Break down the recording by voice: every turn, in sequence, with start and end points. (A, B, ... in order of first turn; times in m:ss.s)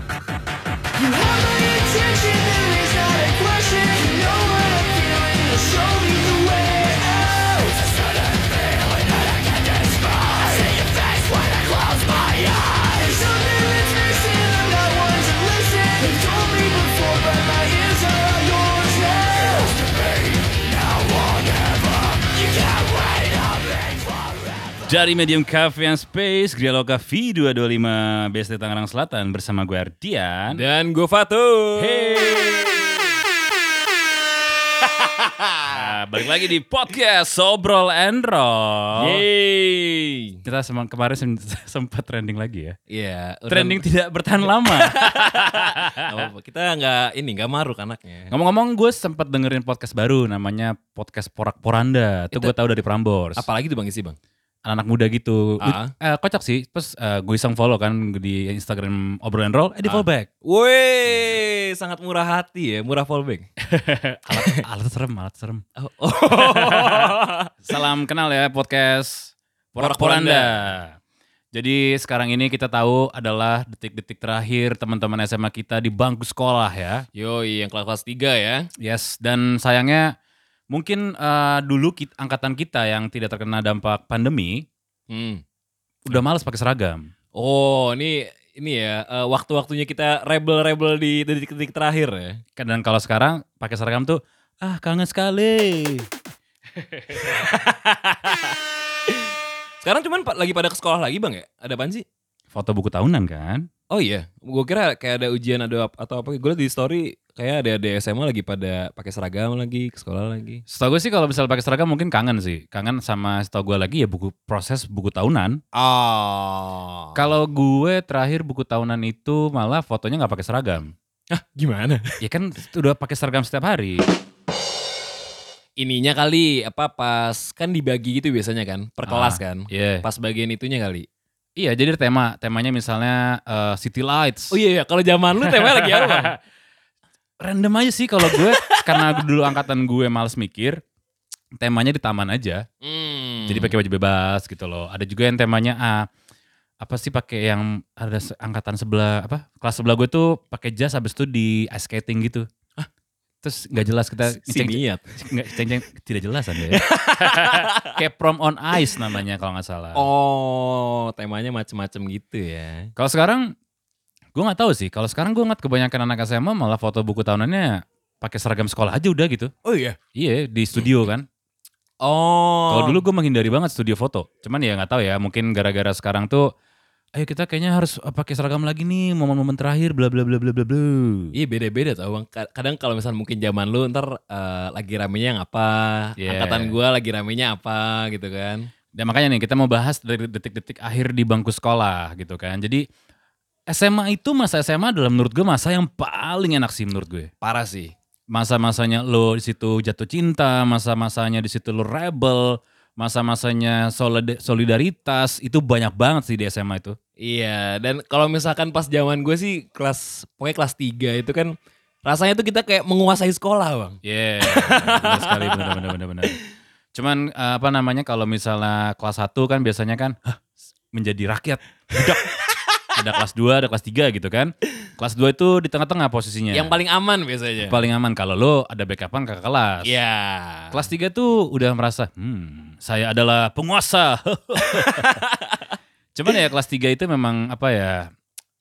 0:01.4-0:07.1 A
0:13.3-0:19.5 A
0:24.9-0:30.6 B
0:30.5-0:32.8 C
0:31.8-0:32.9 B
0:34.9-0:35.9 C
0:35.7-0:39.2 B
0:38.9-0:40.4 C
0:40.4-0:42.8 B
0:42.9-0:43.8 C
0:43.5-0:46.2 B
0:44.4-0:48.3 C
0:48.3-0:53.4 B
0:52.3-0:52.6 C
0:53.4-0:54.2 C
0:54.6-1:00.3 B
0:55.6-0:55.9 C
0:59.8-1:03.4 C
1:03.6-1:05.6 B
1:04.3-1:04.6 C
1:05.8-1:07.7 C
1:06.3-1:11.0 B
1:09.8-1:10.6 C
1:11.5-1:17.0 B
1:17.1-1:18.7 C
1:18.8-1:20.1 B
1:20.7-1:24.7 B
1:25.1-1:25.4 C
1:26.0-1:27.1 B
1:27.3-1:32.4 C
1:32.6-1:36.1 B
1:37.1-1:42.0 C
1:42.5-1:43.7 B
1:43.9-1:50.6 C
1:50.7-1:55.6 B
1:55.7-1:57.2 C
1:57.2-2:00.9 B
2:01.3-2:02.2 C
2:02.2-2:04.1 B
2:05.8-2:11.1 C
2:09.1-2:10.0 B
2:11.6-2:14.5 B
2:14.5-2:16.3 C
2:15.4-2:16.4 B
2:17.4-2:20.8 B
2:18.2-2:19.3 C
2:21.6-2:22.6 B
2:22.8-2:23.8 C
2:23.4-2:26.1 B
2:26.8-2:32.5 B
2:33.4-2:40.0 B
2:34.2-2:35.2 C
2:36.7-2:37.9 C
2:39.9-2:42.9 C
2:43.0-2:43.5 B
2:44.3-2:49.5 B
2:49.6-2:50.0 C
2:50.2-2:51.2 B
2:52.0-2:53.0 C
2:52.7-2:56.5 B
2:57.2-3:01.3 B
3:01.3-3:08.7 C
3:06.2-3:06.7 B
3:08.9-3:12.8 B
3:13.7-3:17.3 B
3:17.4-3:17.9 C
3:18.3-3:27.0 B
3:27.2-3:36.3 C
3:34.0-3:36.3 B
3:36.9-3:40.4 B
3:40.9-3:42.2 B
3:42.5-3:42.8 C
3:42.9-3:46.7 B
3:46.5-3:47.8 C
3:47.6-3:49.9 B
3:49.8-3:50.8 C
3:50.7-3:55.1 B
3:54.6-3:55.7 C
3:56.2-3:58.1 B